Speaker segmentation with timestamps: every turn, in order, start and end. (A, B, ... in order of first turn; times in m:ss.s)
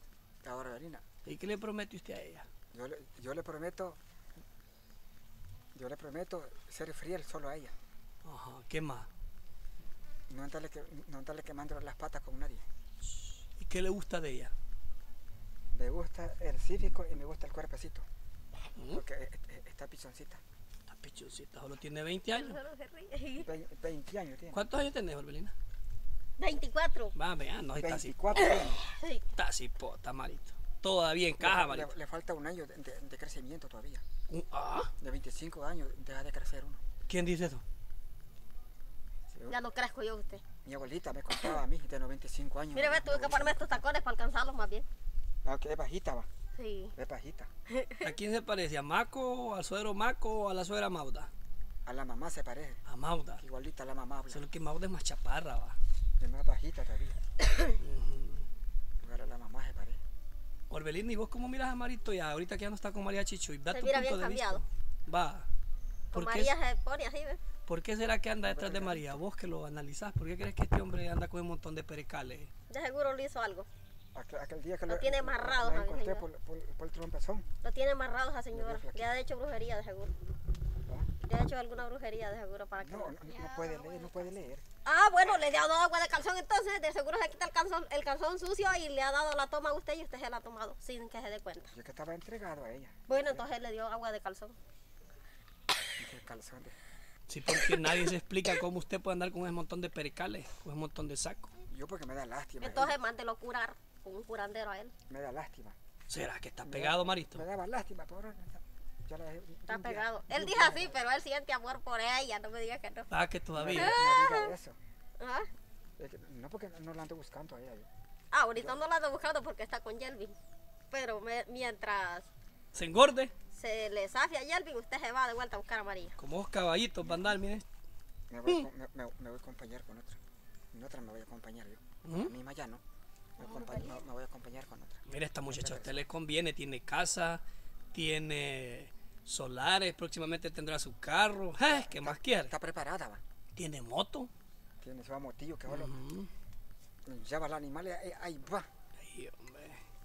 0:00.4-0:01.0 A
0:01.2-0:02.5 B
0:02.7-0:04.0 A
0:05.8-0:07.7 A
0:08.2-0:09.1 B
0:10.3-0:12.6 A
0:13.2-0:14.5 B
0:15.7-0:18.0 A
0:18.8-0:19.0 B
0:18.9-0:20.4 A
0:20.9-0:22.6 B
0:22.4-0:23.5 C
0:23.4-0:24.6 A
0:24.5-0:25.5 B
0:26.4-0:27.1 C
0:27.2-0:28.2 B
0:27.8-0:28.8 A
0:28.4-0:29.2 C
0:29.3-0:31.9 B
0:31.4-0:34.0 A
0:34.3-0:34.9 B
0:35.0-0:36.8 A
0:37.1-0:37.6 B
0:39.3-0:39.6 A
0:39.5-0:40.4 C
0:40.6-0:43.8 A
0:42.7-0:44.9 C
0:45.4-0:46.3 A
0:46.6-0:46.9 C
0:47.0-0:47.5 A
0:47.7-0:48.1 C
0:48.0-0:51.3 B
0:51.9-0:52.8 A
0:52.9-0:53.4 B
0:53.4-0:54.4 A
0:54.3-0:55.8 B
0:56.2-0:57.2 A
0:57.8-0:58.4 B
0:59.0-1:00.0 A
1:00.7-1:05.5 B
1:03.7-1:04.6 C
1:06.1-1:07.4 C
1:06.1-1:06.5 B
1:07.7-1:12.5 B
1:08.4-1:09.2 A
1:12.7-1:13.7 C
1:14.1-1:17.5 A
1:14.9-1:16.2 C
1:17.6-1:20.1 C
1:18.5-1:19.2 A
1:21.2-1:24.0 C
1:22.8-1:24.6 A
1:24.8-1:31.7 C
1:31.7-1:33.5 A
1:33.1-1:34.6 C
1:36.0-1:36.8 A
1:37.3-1:41.5 B
1:37.7-1:38.0 C
1:41.7-1:43.0 A
1:42.6-1:44.9 C
1:45.1-1:45.8 A
1:46.1-1:47.4 B
1:46.6-1:51.0 A
1:49.7-1:53.1 C
1:53.1-1:54.0 B
1:53.6-1:54.8 A
1:53.7-1:54.6 C
1:55.2-1:55.5 C
1:56.0-1:57.9 A
1:58.3-2:00.4 C
2:00.9-2:02.2 C
2:02.7-2:03.3 B
2:03.5-2:06.2 C
2:06.2-2:07.6 B
2:07.0-2:07.4 A
2:08.3-2:10.2 A
2:10.7-2:12.8 A
2:12.0-2:12.3 B
2:13.4-2:16.0 A
2:13.4-2:14.0 C
2:15.1-2:17.4 B
2:17.9-2:22.5 B
2:21.7-2:23.2 A
2:23.6-2:24.3 B
2:24.8-2:26.0 A
2:25.7-2:26.3 B
2:27.1-2:28.7 A
2:29.0-2:29.8 B